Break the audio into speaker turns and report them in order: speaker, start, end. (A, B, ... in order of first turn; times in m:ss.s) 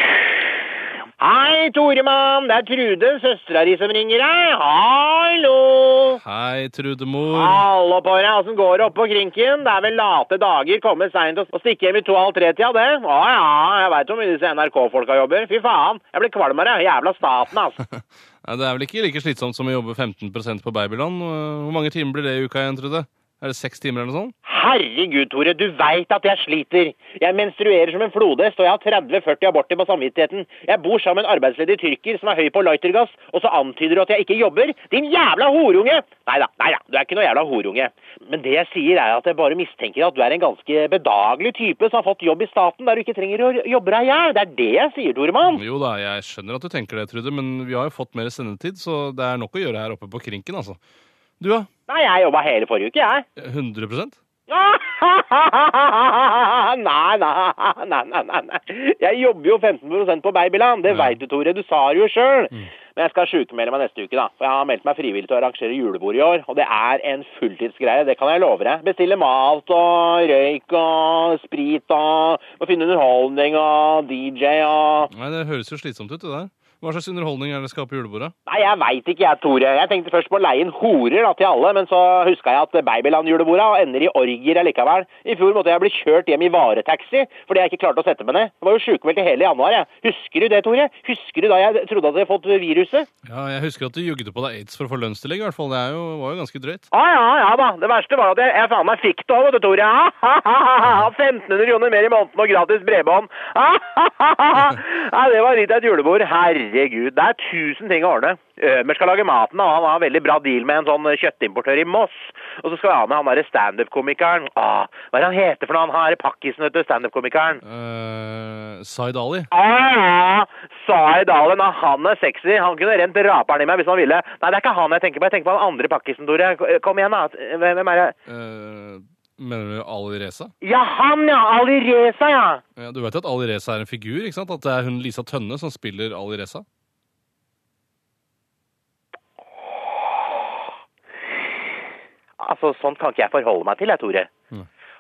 0:01.2-0:06.2 A
0:06.2-0:07.6 B
0:07.3-0:17.8 A
0:17.8-0:24.3 B
0:24.4-0:45.6 A
0:45.5-0:50.8 B
0:51.4-0:51.7 B
0:51.9-0:53.2 A
0:53.4-0:54.2 B
0:54.5-1:15.1 A
1:00.9-1:01.2 B
1:15.1-1:18.3 B
1:18.5-1:33.1 A
1:33.2-1:36.9 B
1:36.9-1:57.6 A
1:57.6-1:59.5 B
1:59.5-2:08.2 A
2:08.3-2:10.5 B
2:10.6-2:12.6 A
2:12.8-2:16.6 B
2:22.4-2:24.3 A